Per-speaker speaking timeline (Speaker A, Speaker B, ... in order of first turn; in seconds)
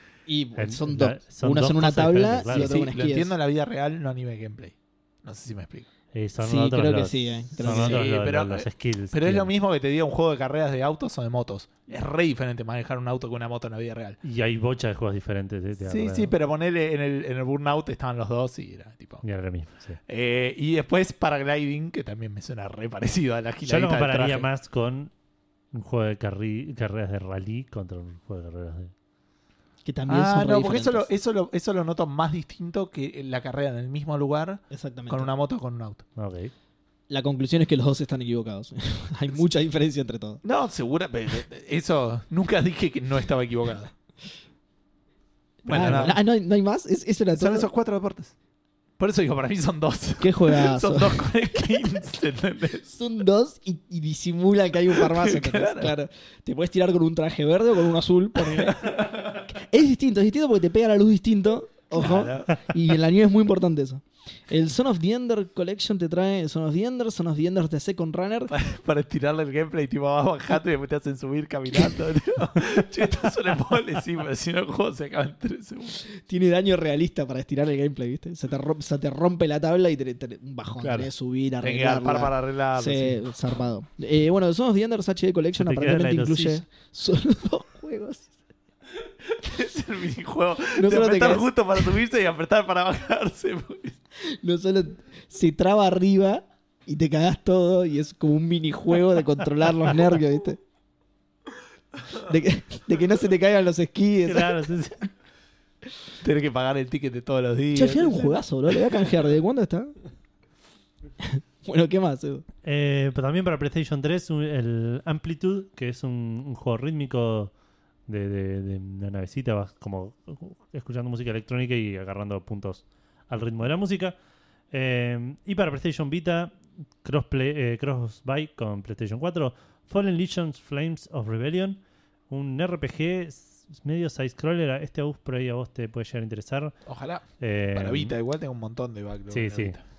Speaker A: 0.3-3.3, 6.4-8.0, 29.8-31.1, 34.7-35.3, 37.1-40.4, 45.6-47.7, 50.2-51.7, 52.9-68.5, 76.1-88.3, 90.7-91.5, 94.2-100.6, 102.2-104.7, 107.7-110.0, 111.2-112.4
Speaker B: 0.6-2.8, 6.1-9.5, 14.2-16.3, 19.2-20.0, 23.6-25.1, 25.7-28.9, 36.1-36.5, 85.6-86.6, 104.2-105.1, 112.6-117.5, 118.1-124.1, 124.7-136.8, 137.4-138.1, 139.3-139.8
Speaker C: 2.5-5.9, 7.6-14.2, 15.8-19.2, 20.1-24.5, 30.1-36.0, 40.4-43.9, 45.6-46.2, 47.4-48.3, 49.0-52.9, 54.9-55.9, 58.5-59.4, 61.9-62.7, 68.5-76.0, 80.8-83.2, 89.2-94.0, 106.2-109.0, 136.8-139.8